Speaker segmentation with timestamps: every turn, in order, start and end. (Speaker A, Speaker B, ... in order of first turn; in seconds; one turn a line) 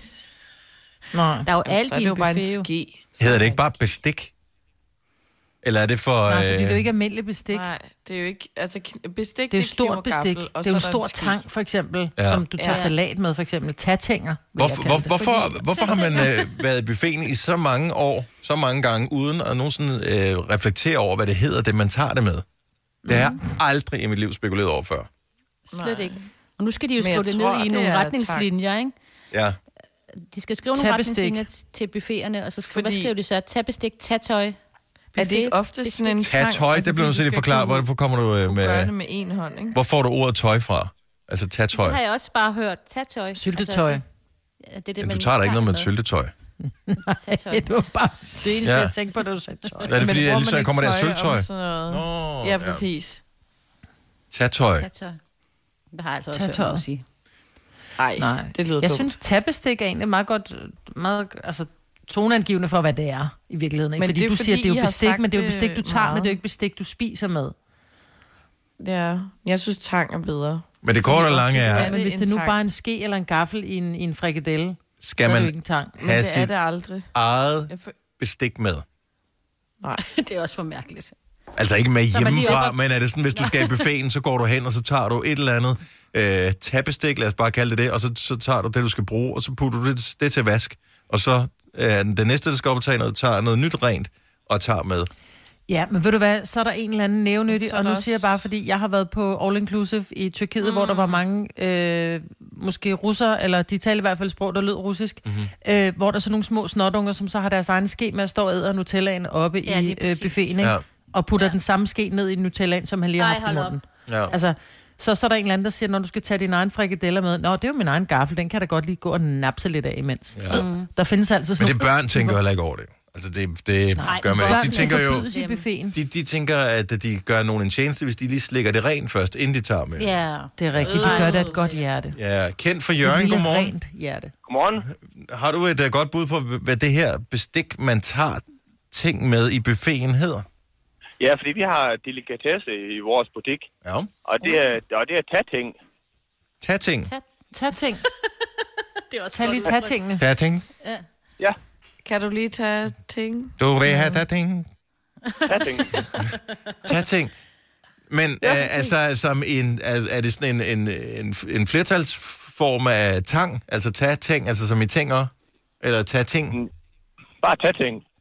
Speaker A: 1.1-1.5
Speaker B: 1.5-2.7
Speaker C: 1.7-3.7
Speaker D: 3.2-4.3
Speaker D: 5.6-6.9
Speaker A: 6.3-7.7
Speaker C: 7.5-11.4
Speaker A: 9.5-15.6
Speaker D: 12.2-12.5
Speaker C: 12.6-12.9
Speaker D: 14.6-22.4
Speaker B: 15.7-16.5
Speaker A: 23.1-23.4
Speaker D: 23.1-25.1
Speaker B: 25.7-28.9
Speaker C: 25.7-26.3
Speaker C: 27.0-28.5
Speaker D: 29.3-29.6
Speaker B: 30.2-34.6
Speaker A: 30.8-31.4
Speaker C: 32.6-33.1
Speaker C: 35.1-37.9
Speaker B: 35.2-36.2
Speaker D: 36.2-38.9
Speaker C: 38.5-39.8
Speaker D: 39.7-42.0
Speaker B: 41.8-44.0
Speaker A: 43.4-44.0
Speaker B: 44.6-45.9
Speaker D: 45.0-46.3
Speaker A: 46.6-50.0
Speaker B: 47.0-47.8
Speaker D: 48.6-48.9
Speaker D: 49.9-52.8
Speaker C: 49.9-53.2
Speaker D: 54.3-54.9
Speaker B: 54.8-55.2
Speaker B: 55.9-57.0
Speaker A: 56.3-56.8
Speaker C: 58.0-59.1
Speaker A: 58.2-67.5
Speaker C: 64.0-66.4
Speaker C: 68.8-72.6
Speaker D: 70.8-72.0
Speaker A: 71.7-76.0
Speaker D: 75.0-76.5
Speaker C: 76.0-77.1
Speaker D: 77.1-78.8
Speaker C: 77.7-78.0
Speaker B: 80.0-81.1
Speaker D: 81.6-95.1
Speaker B: 82.1-82.8
Speaker B: 83.3-83.8
Speaker A: 95.7-122.4
Speaker C: 97.5-98.5
Speaker B: 100.6-101.2
Speaker D: 105.2-105.5
Speaker B: 109.7-110.6
Speaker B: 113.2-113.8
Speaker D: 114.1-114.3
Speaker D: 120.3-120.7
Speaker B: 120.5-120.9
Speaker D: 121.6-125.3
Speaker A: 124.0-126.0
Speaker B: 124.0-125.6
Speaker D: 125.9-130.2
Speaker B: 130.0-131.8
Speaker A: 130.6-132.2
Speaker D: 130.7-131.1
Speaker C: 130.9-131.4
Speaker D: 132.2-133.7
Speaker A: 133.0-134.3
Speaker E: 134.5-134.8
Speaker D: 134.9-140.5
Speaker E: 141.2-143.7
Speaker D: 143.8-144.1
Speaker E: 144.2-145.8
Speaker D: 146.6-147.1
Speaker A: 147.5-148.0
Speaker B: 149.1-150.0
Speaker A: 149.3-150.2
Speaker D: 150.2-150.7
Speaker C: 152.0-154.2
Speaker D: 153.6-154.7
Speaker B: 155.4-156.0
Speaker E: 155.5-156.0
Speaker D: 156.8-157.3
Speaker D: 158.1-166.6
Speaker E: 167.4-168.0